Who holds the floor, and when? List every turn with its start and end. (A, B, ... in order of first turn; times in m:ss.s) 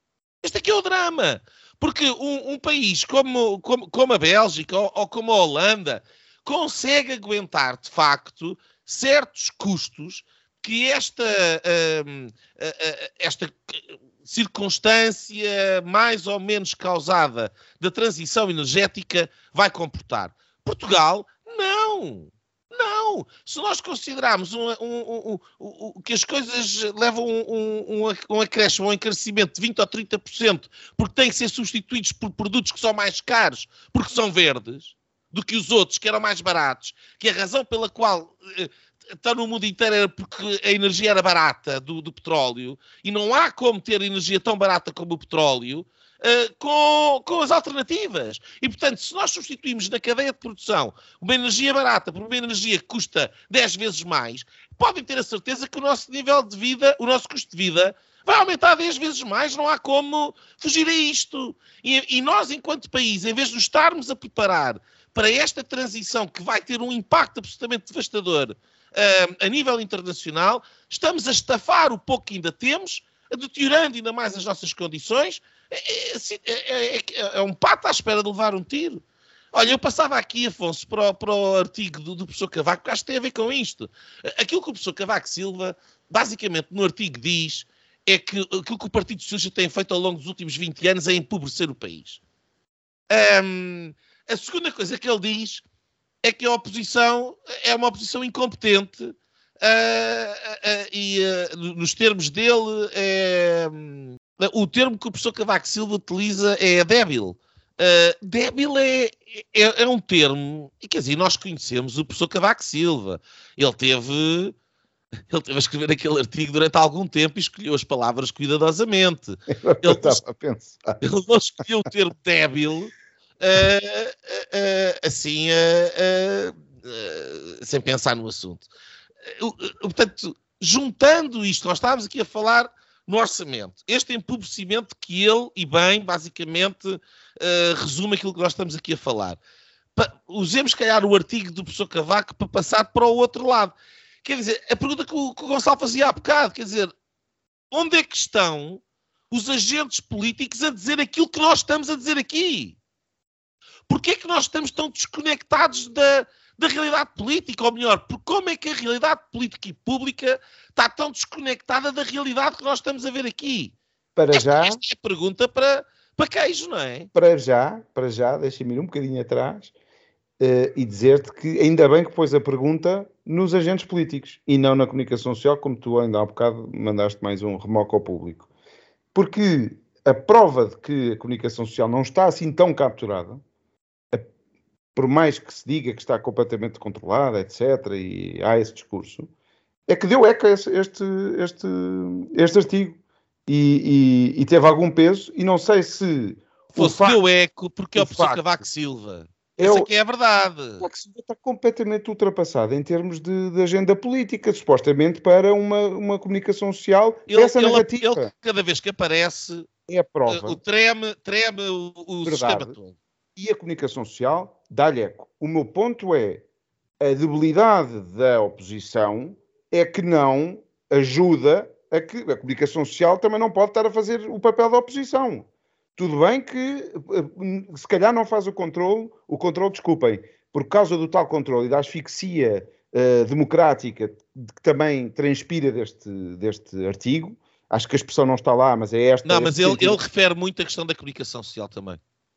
0:00.4-1:32.2 A
1:33.1-1:35.6 A
1:36.2-1:54.5 A
1:55.3-2:00.2 A
1:59.5-2:01.0 B
2:01.0-2:08.7 A
2:09.2-2:19.4 A
2:20.0-2:26.9 A
2:27.7-2:32.8 A
2:33.9-2:43.7 A
2:44.2-2:44.8 B
2:44.3-2:47.1 A
2:47.1-2:49.7 B
2:50.4-2:58.5 B
2:59.1-3:03.4 B
3:04.9-3:09.3 B
3:09.9-3:17.2 B
3:16.7-3:20.8 A
3:18.0-3:18.6 B
3:19.6-3:19.9 B
3:20.8-3:28.3 B
3:27.3-3:29.7 A
3:29.9-3:30.6 B
3:30.3-3:32.9 A
3:32.2-3:32.7 B
3:33.4-3:36.4 B
3:37.0-4:00.0 B
3:59.2-4:02.0 A